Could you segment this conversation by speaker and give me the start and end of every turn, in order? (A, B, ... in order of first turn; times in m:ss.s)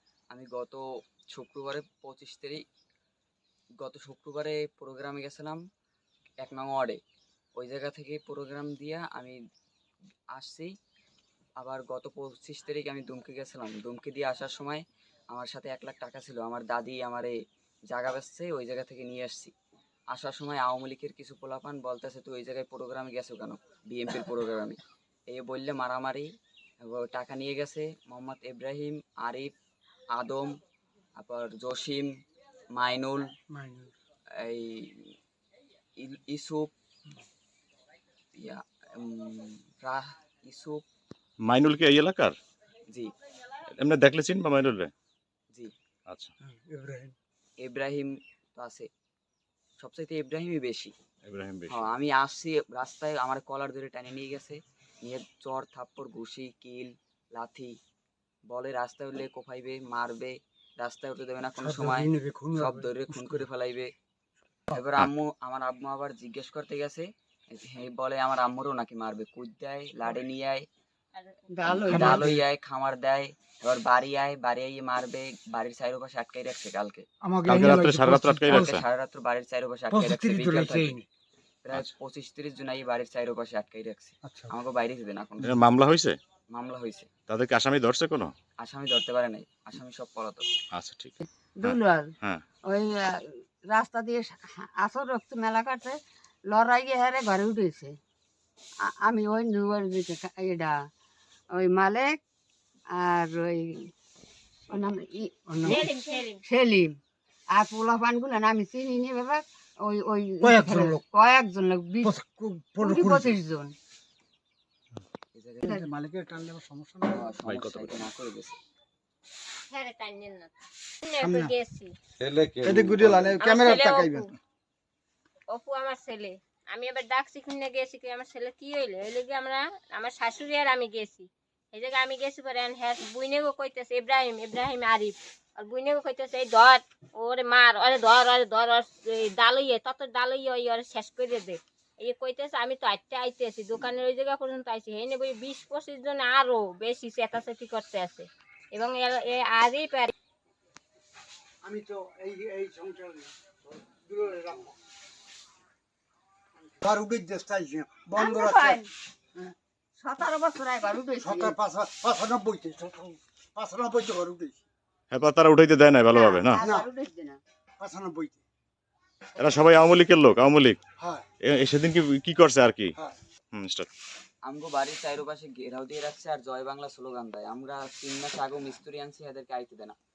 0:00.3-0:02.6 A
0:03.8-0:05.6 A
0:06.4-0:07.0 A
0:07.6-0:09.4 A
0:10.3-0:10.7 A
0:11.6-0:17.4 A
0:17.9-0:19.5 A
0:20.1-0:24.8 A
0:25.3-0:26.3 A
0:26.8-0:29.5 A
0:30.1-0:30.6 A
0:31.2-0:32.1 A
0:32.7-0:33.2 A
0:33.5-0:33.9 B
0:34.4-0:35.2 A
0:36.0-0:36.7 A
0:38.4-0:40.8 A
0:41.4-0:42.3 C
0:43.8-0:44.9 C
0:46.1-0:46.3 C
0:46.4-0:47.1 B
0:47.6-0:48.9 A
0:49.8-0:50.9 A
0:51.2-0:51.9 C
0:51.7-0:57.8 A
0:58.5-1:03.9 A
1:01.6-1:03.4 B
1:04.7-1:10.7 A
1:11.2-1:11.8 D
1:11.5-1:12.3 E
1:11.7-1:17.1 A
1:11.9-1:12.4 B
1:17.2-1:18.7 B
1:17.4-1:18.8 C
1:18.4-1:21.0 A
1:19.9-1:21.1 B
1:21.6-1:25.6 A
1:24.2-1:24.5 B
1:25.5-1:26.2 C
1:26.5-1:27.1 A
1:27.3-1:28.3 C
1:28.6-1:30.4 A
1:30.7-1:32.4 C
1:31.5-1:32.1 E
1:32.7-1:36.0 E
1:36.5-1:38.0 E
1:38.9-1:40.8 E
1:41.6-1:42.2 E
1:42.9-1:43.9 E
1:44.7-1:47.0 E
1:45.5-1:45.9 B
1:45.6-1:46.4 D
1:47.5-1:52.1 E
1:50.4-1:51.0 B
1:52.0-1:53.4 B
1:52.8-1:53.8 E
1:55.3-1:55.8 A
1:55.6-1:57.3 B
1:57.1-1:58.6 A
1:57.4-1:58.0 C
1:59.7-2:01.9 D
2:01.2-2:01.5 B
2:02.2-2:03.3 C
2:02.6-2:04.3 B
2:03.4-2:04.3 D
2:05.5-2:30.1 D
2:31.6-2:34.8 B
2:36.8-2:38.8 B
2:38.2-2:38.9 E
2:40.0-2:41.6 E
2:41.2-2:44.6 B
2:45.1-2:46.6 C
2:46.1-2:47.4 E
2:46.6-2:46.9 B
2:47.8-2:48.4 B
2:49.4-2:50.8 C
2:51.0-2:51.3 B
2:51.4-2:52.9 C
2:53.5-2:53.9 C
2:54.4-2:59.9 A